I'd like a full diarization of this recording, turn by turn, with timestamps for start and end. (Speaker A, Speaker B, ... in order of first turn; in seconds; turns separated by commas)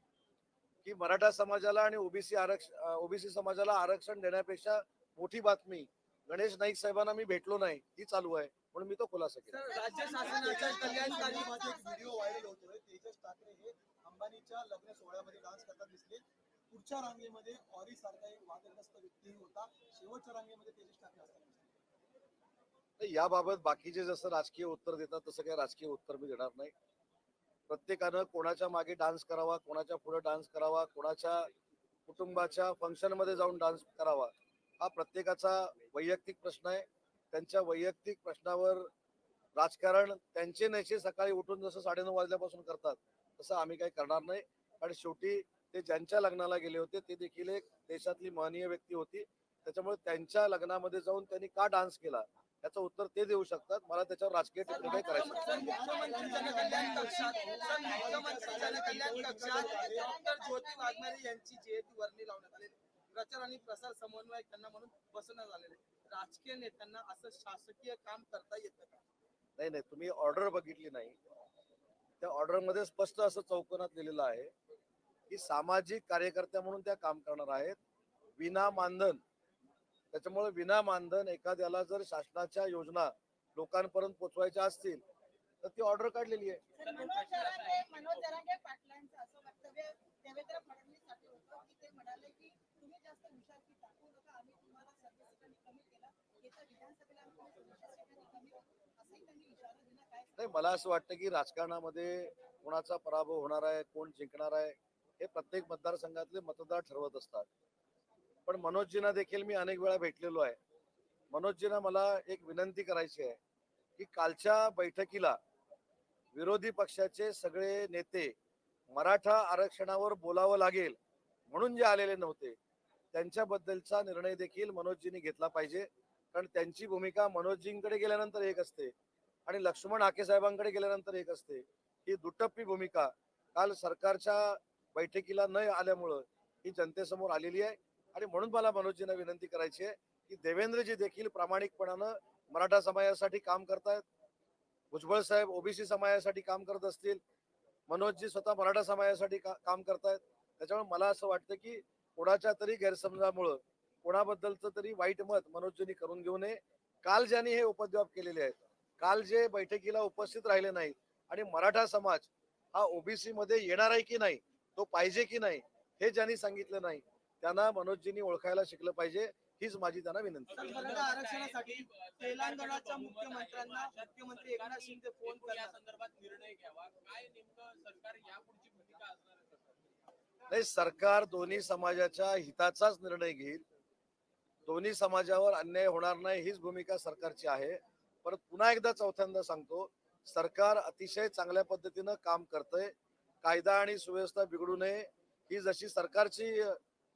Speaker A: 0.8-9.6, Speaker B: 9.5-11.6, Speaker C: 9.7-12.4, Speaker D: 9.8-21.7, Speaker A: 23.0-26.7, Speaker A: 27.7-31.5, Speaker A: 32.1-38.9, Speaker A: 39.5-55.6, Speaker B: 54.7-69.0, Speaker C: 54.8-58.9, Speaker D: 54.8-60.2, Speaker E: 55.5-59.5, Speaker C: 59.5-61.2, Speaker A: 69.6-71.2, Speaker A: 72.2-74.5, Speaker A: 75.3-77.8, Speaker A: 78.4-79.2, Speaker A: 80.1-85.0, Speaker A: 85.6-86.6, Speaker C: 86.8-100.7, Speaker E: 86.8-88.4, Speaker A: 100.4-107.5, Speaker A: 108.5-110.6, Speaker A: 111.3-113.4, Speaker A: 114.0-115.4, Speaker A: 116.3-118.3, Speaker A: 118.9-121.0, Speaker A: 121.5-122.6, Speaker A: 123.1-128.9, Speaker A: 129.4-144.0, Speaker A: 144.9-147.2, Speaker A: 147.9-171.0, Speaker E: 170.5-179.8, Speaker B: 170.6-175.8, Speaker A: 180.5-183.6, Speaker A: 184.7-196.8